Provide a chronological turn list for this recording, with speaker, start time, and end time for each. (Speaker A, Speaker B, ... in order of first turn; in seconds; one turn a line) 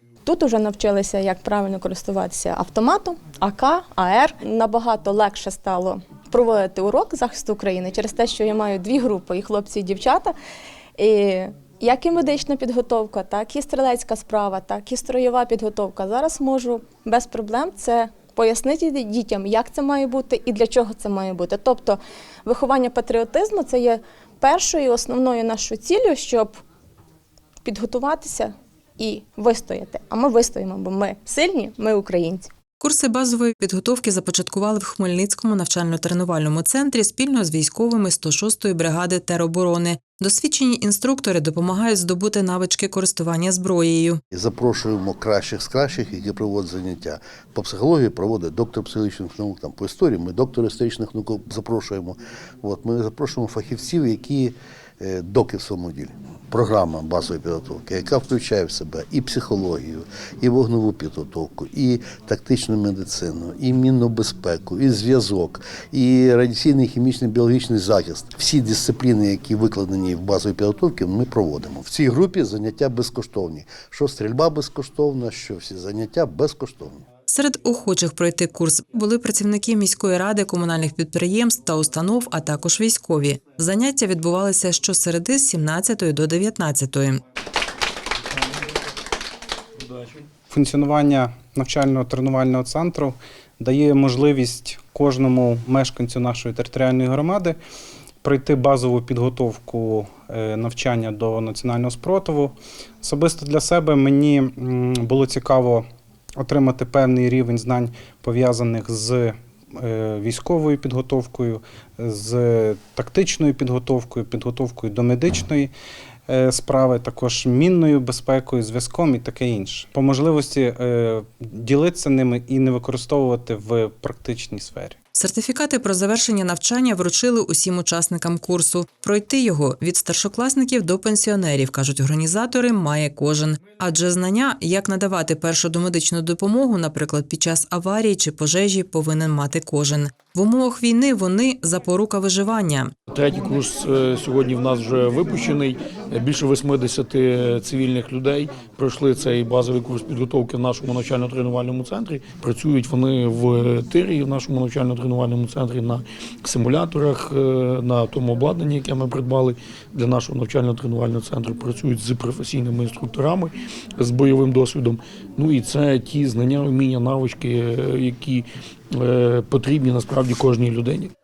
Speaker A: 0.2-10.3
Speaker A: 11.0-26.6
Speaker A: 27.6-32.5
Speaker B: 32.8-44.2
Speaker C: 44.3-77.0
Speaker B: 77.3-87.2
Speaker D: 90.5-97.6
Speaker D: 98.2-105.8
Speaker D: 106.4-115.7
Speaker D: 116.3-125.0
Speaker B: 125.1-142.9
Speaker E: 143.1-171.1